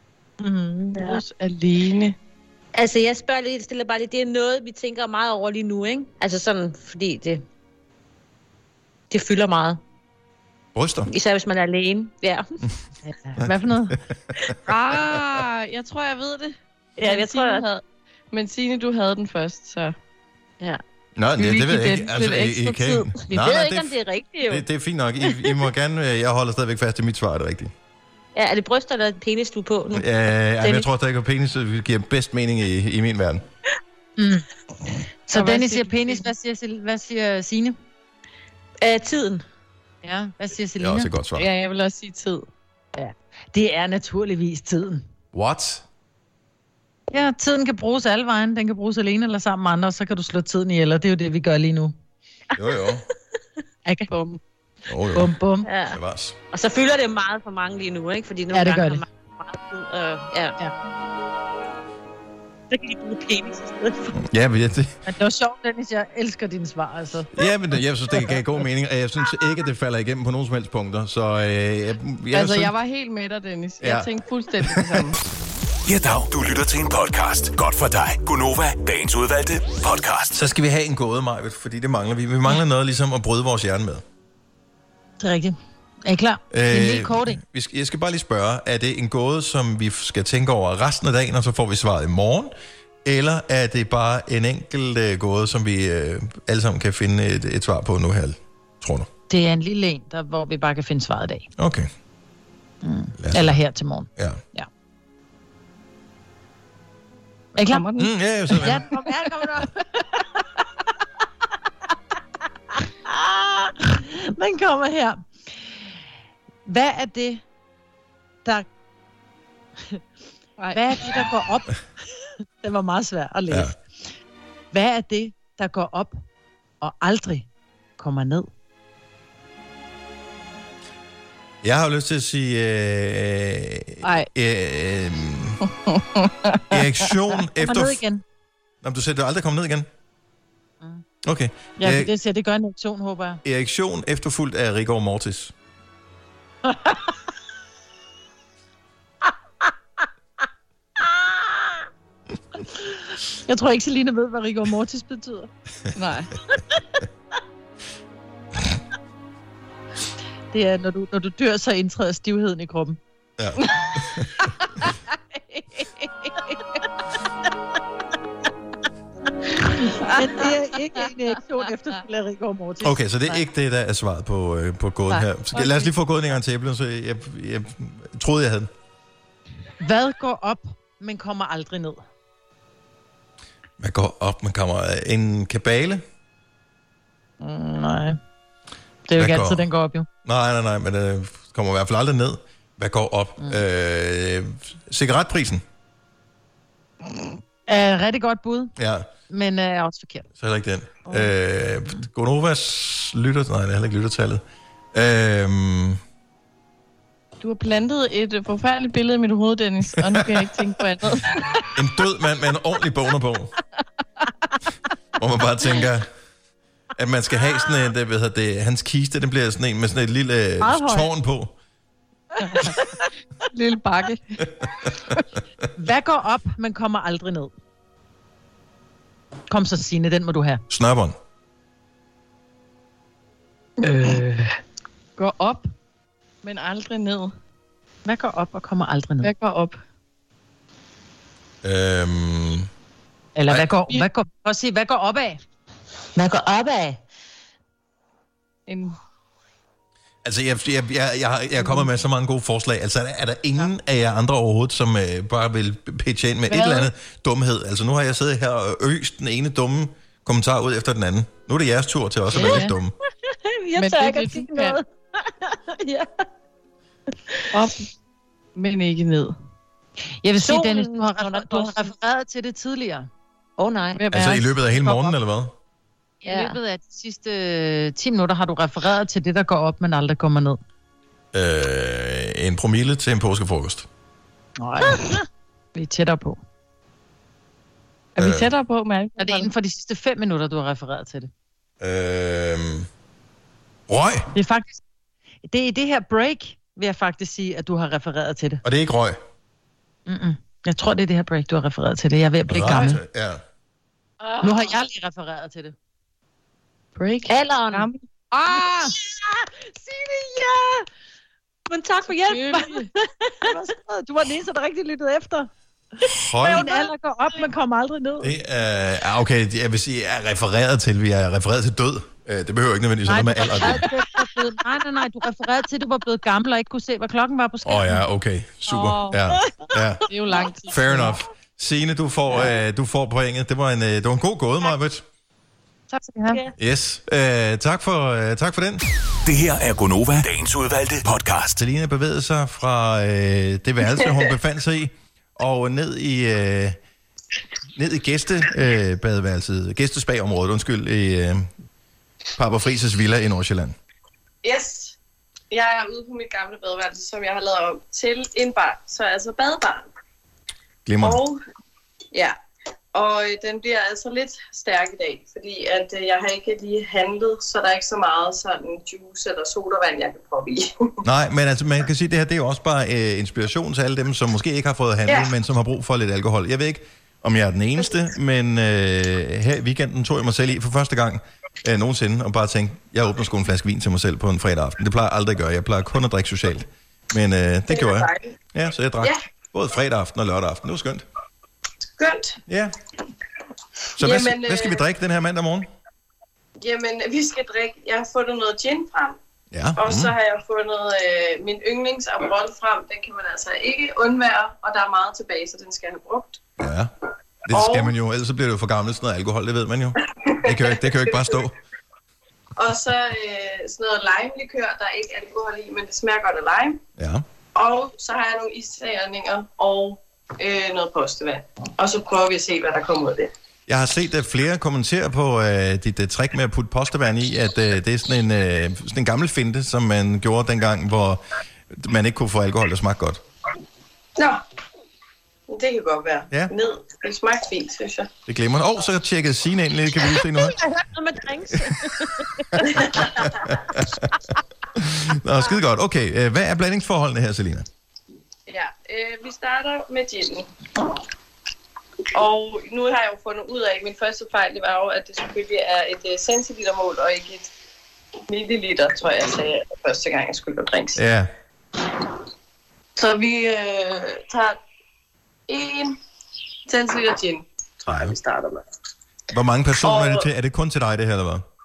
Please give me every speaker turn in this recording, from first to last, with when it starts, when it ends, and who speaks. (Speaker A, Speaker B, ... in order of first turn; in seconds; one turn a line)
Speaker A: 0.4-1.0
Speaker B: 2.7-7.4
Speaker B: 9.1-9.8
Speaker C: 10.7-11.1
Speaker B: 11.1-12.5
Speaker A: 13.0-13.9
Speaker C: 13.4-14.4
Speaker B: 17.0-17.7
Speaker C: 21.1-27.7
Speaker B: 23.3-24.6
Speaker B: 25.2-25.5
Speaker B: 28.3-30.1
Speaker C: 29.9-33.4
Speaker B: 30.6-30.9
Speaker A: 34.2-37.8
Speaker B: 38.8-39.4
Speaker A: 40.0-41.1
Speaker C: 40.8-41.5
Speaker A: 43.0-45.0
Speaker C: 45.3-45.8
Speaker A: 47.1-51.9
Speaker C: 52.5-53.0
Speaker A: 53.9-54.1
Speaker C: 54.9-55.3
Speaker A: 55.1-55.7
Speaker B: 55.6-56.0
Speaker C: 55.9-56.4
Speaker B: 56.5-60.5
Speaker A: 58.5-59.0
Speaker B: 62.8-64.1
Speaker C: 64.1-65.0
Speaker A: 65.0-67.3
Speaker C: 67.3-72.7
Speaker D: 72.4-75.0
Speaker C: 73.8-75.1
Speaker E: 75.8-80.5
Speaker C: 80.3-84.0
Speaker A: 85.2-87.4
Speaker C: 86.5-92.5
Speaker C: 93.0-99.1
Speaker A: 99.3-101.5
Speaker C: 101.6-101.9
Speaker A: 102.8-104.7
Speaker C: 103.2-103.6
Speaker A: 107.5-107.9
Speaker C: 108.0-108.9
Speaker A: 108.5-110.6
Speaker A: 112.8-115.2
Speaker A: 116.7-117.4
Speaker A: 120.7-121.8
Speaker A: 122.6-123.8
Speaker A: 124.7-126.2
Speaker A: 126.8-127.5
Speaker A: 128.0-128.5
Speaker C: 131.6-135.6
Speaker C: 136.7-138.0
Speaker A: 137.6-138.2
Speaker C: 138.8-139.9
Speaker C: 141.2-142.1
Speaker A: 141.8-143.4
Speaker C: 143.4-145.5
Speaker A: 146.7-147.1
Speaker A: 151.0-151.8
Speaker A: 152.8-155.5
Speaker D: 156.0-156.3
Speaker A: 160.5-163.0
Speaker C: 163.4-164.3
Speaker A: 169.6-173.4
Speaker C: 172.8-178.7
Speaker A: 179.8-182.0
Speaker C: 183.8-186.0
Speaker A: 187.4-188.2
Speaker A: 189.1-190.1
Speaker C: 189.2-189.7
Speaker C: 190.2-195.6
Speaker A: 197.7-198.7
Speaker C: 198.8-199.1
Speaker A: 199.3-200.3
Speaker C: 200.4-206.0
Speaker D: 207.4-211.2
Speaker C: 209.9-210.4
Speaker C: 211.7-213.5
Speaker C: 215.2-216.1
Speaker C: 216.9-221.5
Speaker A: 220.6-221.1
Speaker D: 223.5-224.4
Speaker A: 225.8-227.5
Speaker A: 229.5-230.6
Speaker C: 230.7-231.2
Speaker D: 235.2-235.7
Speaker D: 236.4-237.3
Speaker A: 238.0-239.3
Speaker D: 239.2-239.8
Speaker C: 241.6-242.7
Speaker A: 243.3-245.4
Speaker B: 246.1-247.0
Speaker D: 248.7-248.9
Speaker C: 250.2-262.9
Speaker B: 262.3-262.7
Speaker B: 263.2-266.1
Speaker D: 263.8-264.8
Speaker D: 268.6-269.3
Speaker A: 270.2-273.1
Speaker B: 270.4-271.9
Speaker B: 273.6-274.0
Speaker D: 273.9-274.4
Speaker C: 274.1-275.5
Speaker A: 274.8-275.1
Speaker A: 276.2-280.6
Speaker B: 276.2-276.6
Speaker C: 281.3-283.9
Speaker A: 284.6-285.2
Speaker A: 285.7-286.4
Speaker C: 288.2-288.5
Speaker D: 288.2-289.4
Speaker A: 289.2-291.3
Speaker C: 291.8-292.9
Speaker C: 293.9-294.3
Speaker A: 294.3-294.8
Speaker A: 295.5-298.6
Speaker C: 298.6-299.2
Speaker A: 300.1-303.0
Speaker C: 302.5-303.4
Speaker A: 304.4-305.7
Speaker D: 307.0-308.9
Speaker B: 307.3-307.9
Speaker A: 308.5-310.9
Speaker B: 311.7-313.5
Speaker D: 312.1-312.8
Speaker A: 313.4-315.5
Speaker C: 316.0-316.7
Speaker A: 316.4-318.3
Speaker C: 318.2-323.9
Speaker A: 323.1-328.0
Speaker C: 327.6-330.0
Speaker D: 328.7-329.1
Speaker D: 330.1-330.9
Speaker C: 330.7-335.0
Speaker A: 335.9-336.4
Speaker C: 336.6-338.8
Speaker E: 339.2-341.6
Speaker C: 341.6-346.8
Speaker C: 347.7-351.5
Speaker C: 352.4-353.8
Speaker F: 354.4-354.9
Speaker F: 355.5-359.9
Speaker C: 360.9-361.2
Speaker F: 361.0-361.4
Speaker F: 362.9-371.0
Speaker C: 371.0-391.1
Speaker F: 375.1-375.3
Speaker F: 387.7-388.3
Speaker F: 392.0-392.4
Speaker C: 392.5-392.7
Speaker C: 394.0-395.7
Speaker F: 394.0-394.8
Speaker F: 396.6-399.2
Speaker C: 399.5-400.1
Speaker F: 399.8-406.4
Speaker C: 406.6-406.9
Speaker C: 407.5-411.6
Speaker F: 407.5-407.9
Speaker F: 410.2-411.4
Speaker F: 412.6-416.8
Speaker C: 417.0-417.2
Speaker F: 417.5-423.3
Speaker C: 423.7-433.2
Speaker F: 435.5-438.1
Speaker C: 438.3-440.6
Speaker B: 440.4-442.8
Speaker F: 442.8-443.0
Speaker C: 443.1-444.1
Speaker C: 444.7-447.7
Speaker F: 448.5-450.5
Speaker F: 452.1-457.5
Speaker F: 458.3-461.0
Speaker C: 460.9-461.3
Speaker F: 463.0-464.6
Speaker F: 465.5-466.0
Speaker F: 466.7-468.6
Speaker C: 467.9-468.1
Speaker C: 469.3-471.4
Speaker F: 469.8-470.3